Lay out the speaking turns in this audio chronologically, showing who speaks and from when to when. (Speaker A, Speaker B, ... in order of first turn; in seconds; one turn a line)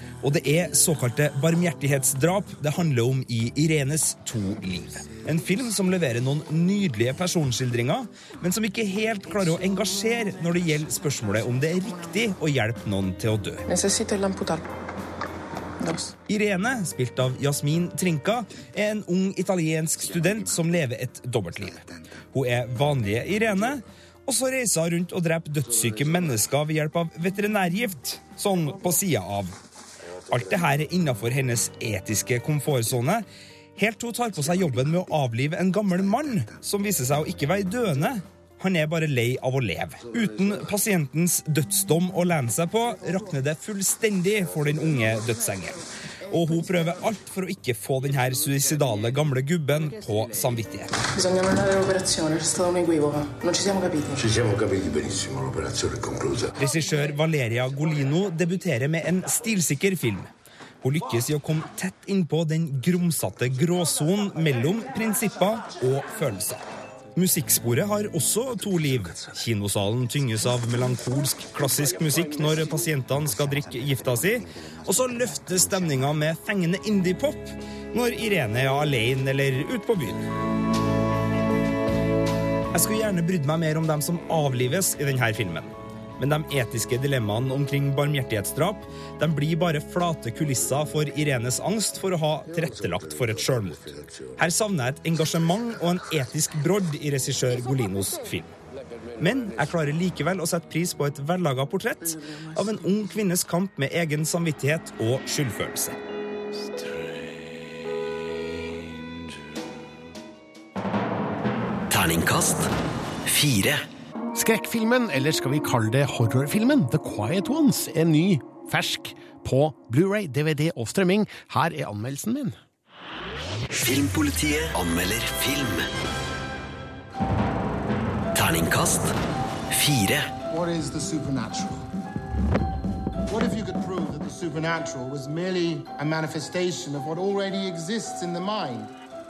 Speaker A: 0.2-13.6
Speaker B: 13.7-14.6
Speaker B: 15.8-16.1
Speaker A: 16.3-29.5
Speaker A: 30.3-33.2
Speaker A: 33.8-45.8
Speaker A: 46.3-50.9
Speaker B: 51.1-54.2
Speaker C: 54.1-56.5
Speaker A: 56.6-60.3
Speaker A: 60.8-66.6
Speaker A: 67.2-80.3
Speaker A: 82.7-98.5
Speaker A: 99.2-106.0
Speaker D: 111.9-112.7
Speaker D: 113.2-113.8
Speaker E: 114.3-122.6
Speaker D: 123.7-125.9
Speaker D: 128.3-129.1
Speaker D: 129.7-130.3
Speaker F: 130.5-131.9
Speaker F: 133.3-138.9